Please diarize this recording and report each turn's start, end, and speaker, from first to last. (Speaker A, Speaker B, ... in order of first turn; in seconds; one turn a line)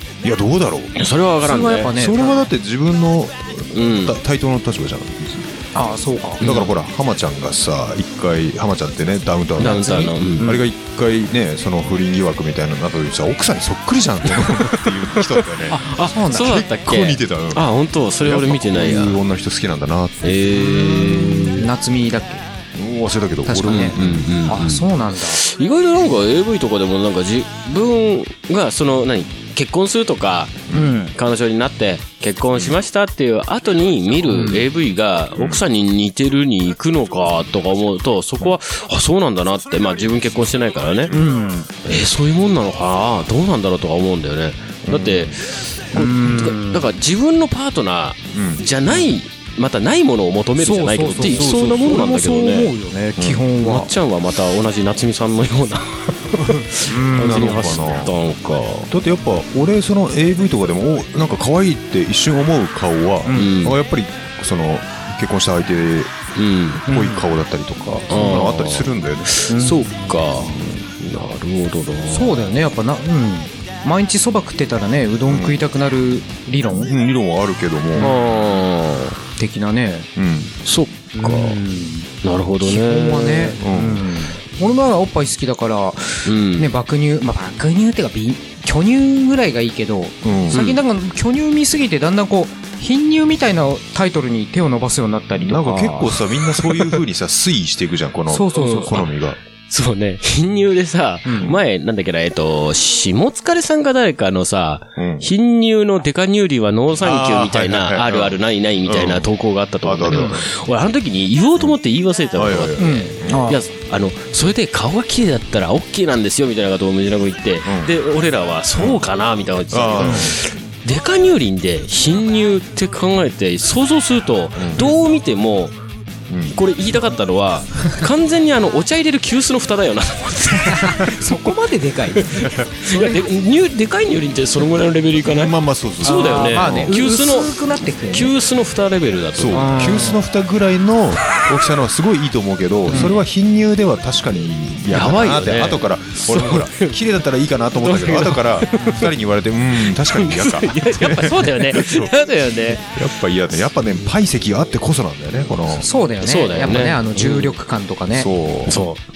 Speaker A: 0.2-1.0
Speaker B: 0.9-1.9
Speaker C: 1.4-2.4
Speaker A: 1.9-5.5
Speaker B: 3.7-4.2
Speaker C: 5.7-6.4
Speaker B: 6.4-6.7
Speaker A: 6.4-20.4
Speaker B: 9.6-10.5
Speaker C: 9.6-10.6
Speaker B: 14.3-19.2
Speaker C: 15.7-16.7
Speaker B: 20.2-21.7
Speaker C: 20.5-22.4
Speaker A: 22.7-24.3
Speaker C: 23.4-25.4
Speaker B: 23.7-41.1
Speaker A: 30.7-31.0
Speaker C: 30.7-31.1
Speaker C: 34.3-34.6
Speaker A: 35.3-35.6
Speaker C: 41.1-41.7
Speaker B: 41.8-52.7
Speaker A: 44.8-45.4
Speaker C: 45.9-46.9
Speaker A: 48.3-48.6
Speaker C: 50.6-53.9
Speaker A: 51.2-52.1
Speaker A: 53.2-53.4
Speaker B: 53.6-58.9
Speaker A: 56.4-58.1
Speaker C: 56.9-57.7
Speaker A: 58.9-66.1
Speaker C: 63.2-63.6
Speaker B: 63.3-63.8
Speaker B: 66.3-66.8
Speaker A: 66.8-69.4
Speaker C: 66.8-67.3
Speaker B: 68.1-72.5
Speaker C: 69.5-70.4
Speaker C: 72.1-76.9
Speaker A: 75.3-75.6
Speaker A: 76.8-78.1
Speaker C: 77.9-78.2
Speaker B: 78.0-79.2
Speaker C: 79.4-80.1
Speaker A: 80.2-80.5
Speaker B: 80.6-81.6
Speaker C: 81.2-82.1
Speaker B: 82.2-83.6
Speaker C: 82.6-97.0
Speaker A: 83.6-84.1
Speaker B: 86.2-86.7
Speaker A: 90.2-90.6
Speaker B: 90.5-90.8
Speaker A: 95.4-99.4
Speaker C: 98.3-99.1
Speaker B: 98.5-99.0
Speaker B: 99.7-125.8
Speaker C: 101.2-101.6
Speaker A: 105.0-105.3
Speaker A: 107.0-109.3
Speaker A: 109.8-110.4
Speaker C: 110.1-110.4
Speaker A: 112.3-113.5
Speaker C: 112.8-113.6
Speaker A: 117.6-117.9
Speaker A: 118.7-119.0
Speaker A: 119.7-120.4
Speaker A: 124.5-124.9
Speaker A: 126.3-126.6
Speaker B: 126.5-131.2
Speaker C: 130.7-133.2
Speaker B: 132.2-137.6
Speaker A: 135.2-136.9
Speaker C: 136.0-138.3
Speaker B: 138.1-140.0
Speaker A: 139.3-152.2
Speaker C: 139.5-140.2
Speaker C: 142.9-143.2
Speaker B: 144.9-147.0
Speaker B: 147.7-149.1
Speaker B: 149.8-152.8
Speaker A: 152.7-155.9
Speaker C: 155.8-158.3
Speaker B: 156.2-157.5
Speaker A: 158.1-158.8
Speaker B: 158.7-159.0